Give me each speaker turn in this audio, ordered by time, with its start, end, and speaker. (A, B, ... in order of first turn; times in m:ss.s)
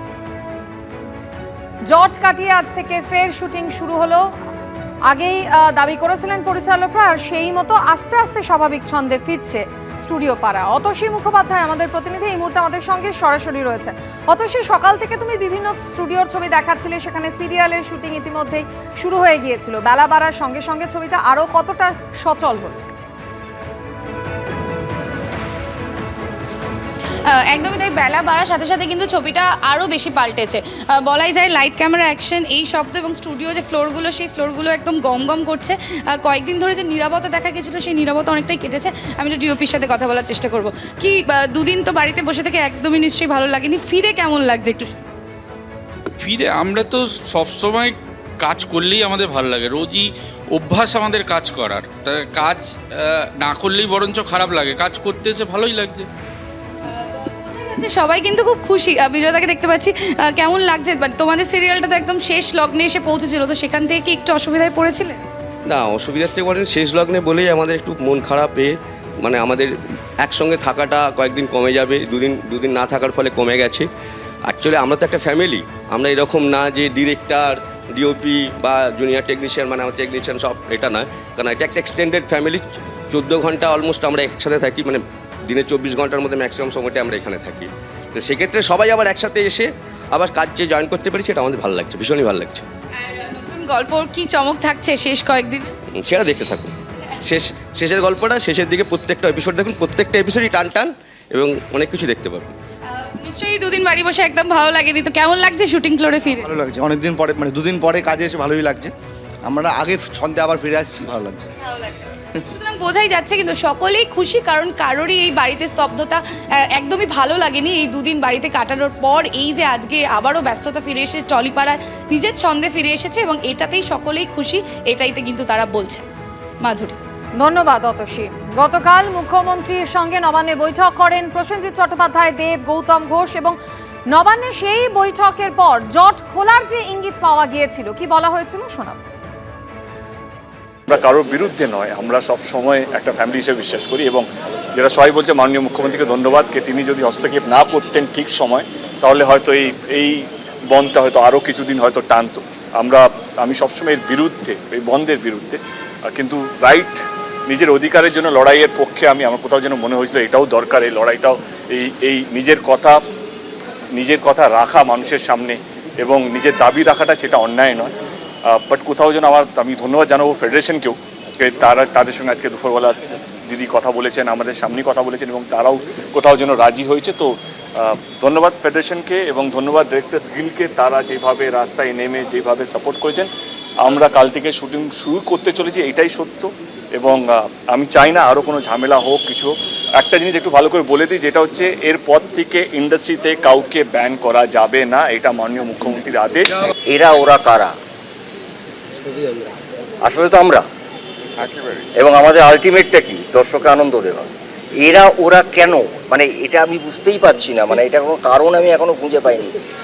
0:01.9-0:04.3 A
0:05.1-0:22.8 A
0:27.3-0:45.0 B
0:46.2-0:56.1 C
0:56.9-1:05.2 B
1:05.7-1:13.9 D
1:14.5-1:32.7 D
1:33.0-1:35.7 B
1:35.9-1:36.7 D
1:37.2-1:42.6 D
1:43.0-1:46.6 B
1:46.6-1:48.9 E
1:49.5-1:51.4 E
1:51.6-2:06.1 B
2:06.6-2:07.0 B
2:07.4-2:13.6 A
2:14.1-2:19.0 A
2:20.9-2:24.2 F
2:24.8-2:43.0 F
2:43.9-2:47.9 F
2:48.5-3:03.3 F
3:03.8-3:16.6 F
3:16.8-3:17.8 G
3:20.0-3:20.7 G
3:21.9-3:29.6 G